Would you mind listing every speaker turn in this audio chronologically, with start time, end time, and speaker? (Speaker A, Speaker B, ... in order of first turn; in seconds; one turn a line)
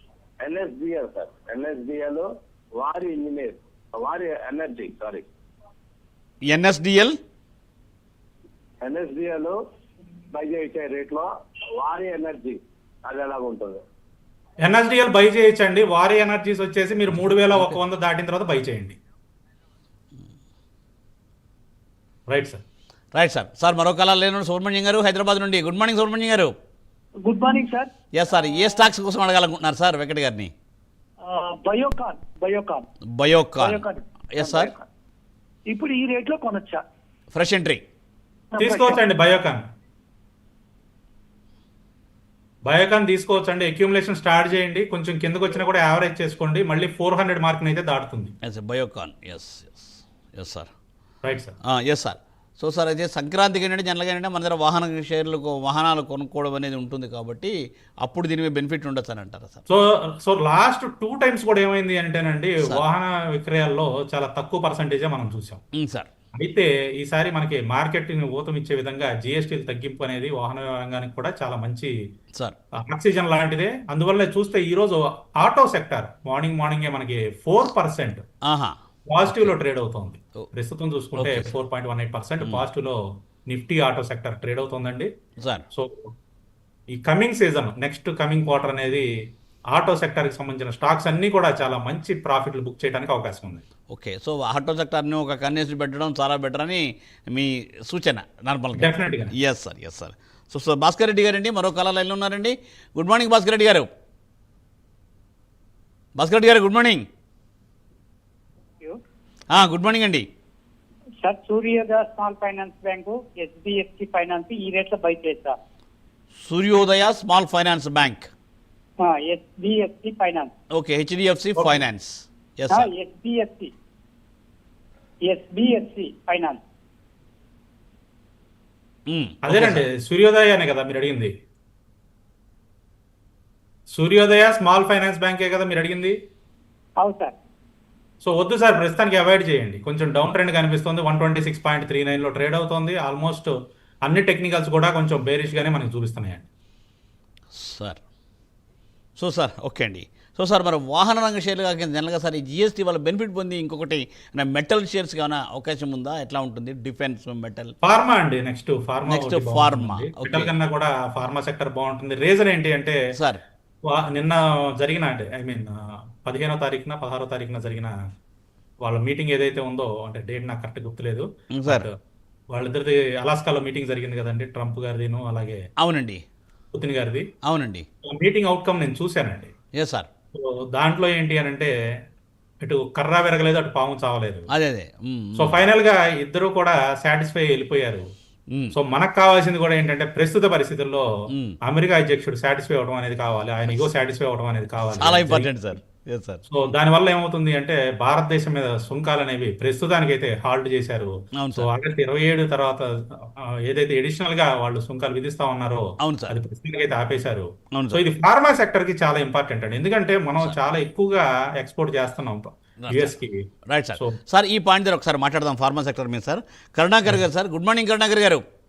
Speaker A: 0.4-5.2
Speaker B: 6.5-7.2
Speaker A: 8.8-9.6
Speaker A: 10.3-13.8
Speaker C: 14.6-19.0
Speaker C: 22.3-22.6
Speaker B: 23.1-26.5
Speaker D: 27.2-27.9
Speaker B: 28.1-30.5
Speaker D: 31.3-32.9
Speaker B: 33.1-34.7
Speaker D: 33.6-34.9
Speaker D: 35.7-36.8
Speaker B: 37.3-37.8
Speaker D: 38.5-39.0
Speaker C: 38.6-39.6
Speaker C: 42.7-48.4
Speaker B: 48.4-50.7
Speaker C: 51.2-51.6
Speaker B: 51.6-59.7
Speaker C: 59.7-65.6
Speaker B: 65.7-66.1
Speaker C: 66.4-71.9
Speaker C: 72.8-78.2
Speaker B: 78.5-79.5
Speaker C: 79.1-85.1
Speaker B: 81.2-81.5
Speaker B: 85.4-85.7
Speaker C: 85.7-86.1
Speaker C: 86.9-89.1
Speaker C: 89.7-93.6
Speaker B: 93.9-103.9
Speaker C: 98.8-99.3
Speaker B: 106.2-107.1
Speaker B: 109.5-110.3
Speaker E: 111.2-115.6
Speaker B: 116.4-118.3
Speaker E: 119.0-120.5
Speaker B: 120.7-122.9
Speaker E: 122.7-123.7
Speaker E: 125.3-126.6
Speaker B: 129.1-129.9
Speaker C: 129.4-131.3
Speaker C: 133.9-136.2
Speaker E: 137.0-137.3
Speaker C: 138.2-143.5
Speaker C: 144.1-146.5
Speaker B: 147.5-148.0
Speaker B: 149.2-157.7
Speaker C: 157.8-163.0
Speaker B: 159.1-160.5
Speaker B: 163.2-163.4
Speaker C: 163.9-168.0
Speaker C: 168.8-172.0
Speaker B: 171.5-171.9
Speaker C: 172.5-175.6
Speaker B: 175.8-176.2
Speaker C: 176.7-177.3
Speaker B: 177.4-177.9
Speaker C: 178.0-179.5
Speaker B: 179.8-180.1
Speaker C: 180.3-181.7
Speaker C: 182.6-184.5
Speaker B: 184.5-185.7
Speaker C: 185.4-188.1
Speaker C: 188.7-191.1
Speaker B: 191.3-191.6
Speaker C: 191.6-195.5
Speaker B: 195.0-196.4
Speaker C: 196.5-214.2
Speaker B: 201.4-201.7
Speaker B: 206.0-206.4
Speaker B: 207.7-208.0
Speaker B: 212.8-213.1
Speaker B: 213.7-218.4